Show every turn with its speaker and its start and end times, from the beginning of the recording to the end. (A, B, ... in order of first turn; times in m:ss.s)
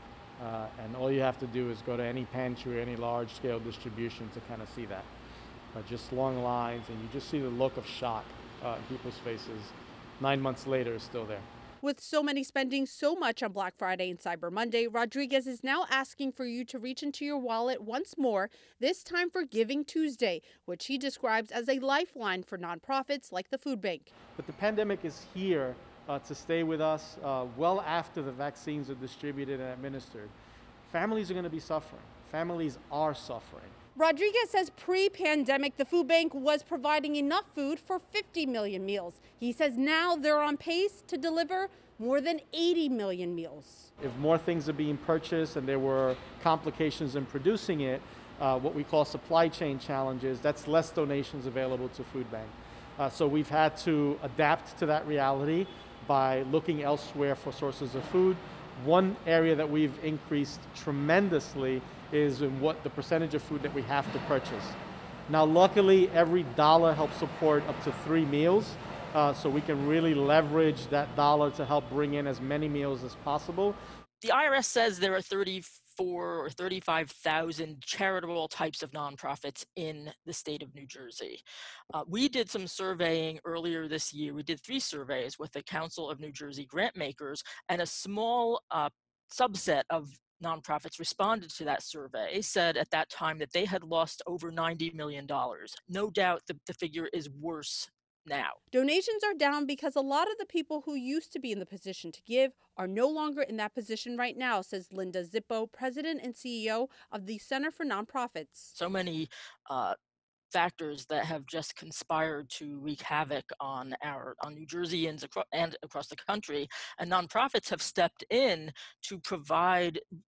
0:00.4-0:05.1 A
0:05.7-0:11.4 A
0:11.8-0:24.1 B
0:24.3-0:30.3 A
0:30.8-0:33.7 A
0:34.0-0:43.9 B
0:44.0-1:04.8 A
1:05.3-1:13.8 A
1:14.2-1:21.4 C
1:21.9-1:38.6 C
1:38.7-1:48.7 B
1:48.7-1:49.9 C
1:50.5-2:00.0 C